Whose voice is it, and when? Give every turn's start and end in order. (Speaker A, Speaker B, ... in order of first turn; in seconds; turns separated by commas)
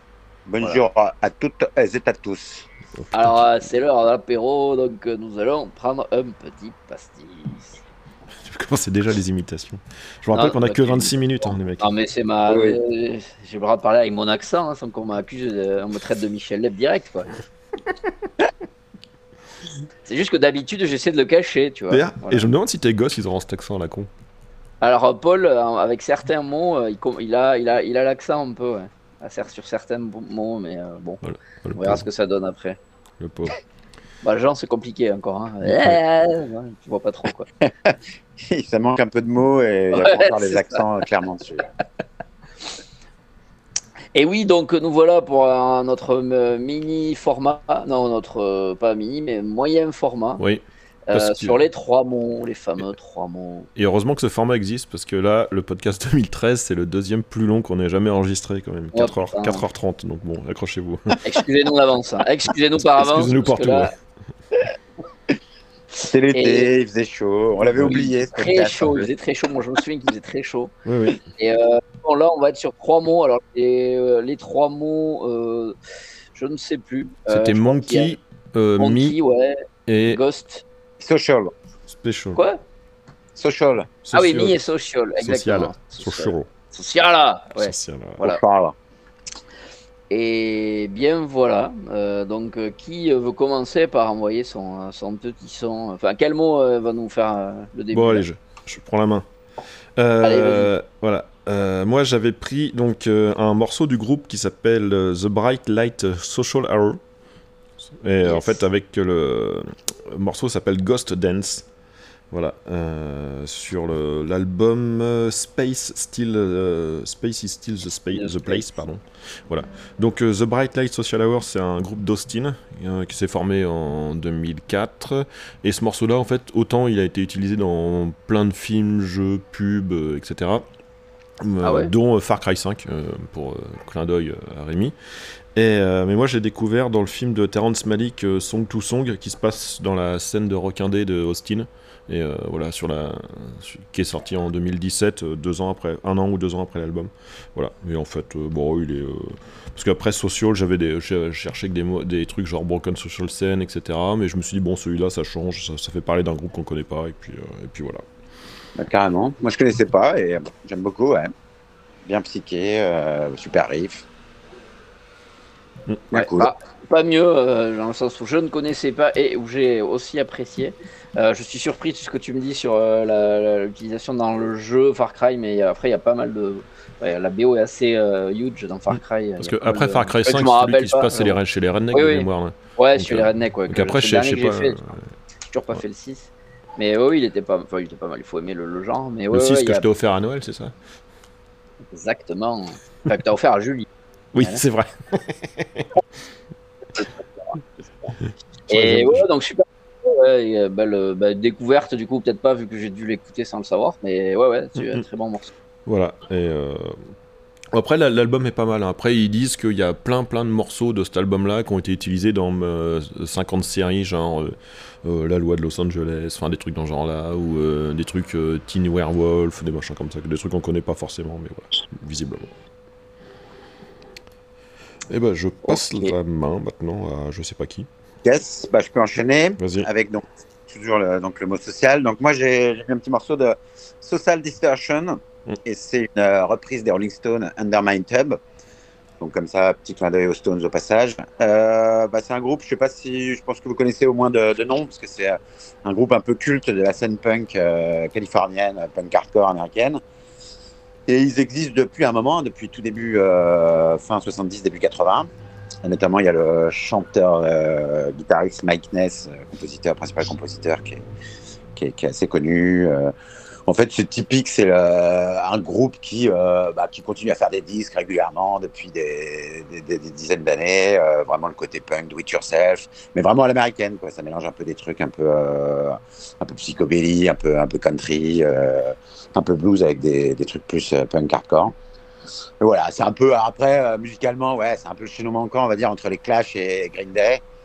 Speaker A: 0.5-2.7, Speaker B: 3.0-3.4, Speaker C: 3.1-7.8, Speaker B: 8.4-11.9, Speaker C: 10.3-17.4, Speaker A: 12.5-12.8, Speaker C: 20.1-22.5, Speaker B: 21.9-24.1, Speaker C: 24.8-31.2, Speaker B: 31.2-32.1, Speaker C: 31.8-32.8, Speaker B: 33.2-33.6, Speaker C: 34.2-37.5, Speaker B: 35.6-36.0, Speaker A: 37.6-41.7, Speaker C: 39.9-40.8, Speaker C: 44.1-50.4, Speaker B: 50.4-51.6, Speaker C: 51.1-53.7, Speaker B: 53.8-61.2, Speaker C: 58.9-59.6, Speaker C: 61.2-63.9, Speaker B: 62.9-63.9, Speaker A: 66.0-69.1, Speaker C: 66.3-66.7, Speaker C: 67.7-70.7, Speaker B: 70.9-71.2, Speaker C: 71.3-75.8, Speaker C: 76.3-78.2, Speaker B: 77.3-79.2, Speaker C: 78.8-80.6, Speaker B: 79.9-80.2, Speaker A: 81.0-81.5, Speaker B: 81.9-82.4, Speaker A: 83.3-83.9, Speaker B: 84.0-84.6, Speaker C: 84.1-88.4, Speaker B: 85.2-86.5, Speaker B: 87.6-88.2, Speaker A: 88.2-88.8, Speaker C: 90.1-98.2, Speaker B: 97.9-99.3, Speaker B: 100.0-107.0, Speaker C: 100.2-100.7, Speaker B: 108.0-111.7, Speaker C: 108.2-108.6, Speaker B: 112.3-130.7, Speaker C: 118.1-118.6, Speaker B: 131.4-134.9, Speaker C: 131.6-131.9, Speaker B: 135.6-158.0, Speaker A: 158.8-161.3, Speaker A: 162.1-164.1, Speaker A: 166.1-166.5, Speaker C: 166.1-181.4, Speaker B: 179.4-185.1, Speaker C: 181.9-184.8, Speaker C: 185.5-189.8, Speaker B: 189.3-190.7, Speaker C: 191.9-193.9, Speaker B: 194.3-195.9, Speaker C: 198.7-205.5, Speaker B: 198.7-199.3, Speaker B: 204.8-205.0, Speaker B: 205.9-207.0, Speaker B: 207.7-222.5, Speaker B: 225.1-227.9, Speaker A: 225.7-226.1, Speaker A: 228.2-238.4, Speaker B: 229.6-229.9, Speaker A: 239.2-250.0, Speaker A: 251.1-255.3, Speaker A: 255.8-261.0, Speaker A: 261.8-263.1, Speaker A: 263.7-281.8, Speaker A: 282.6-287.4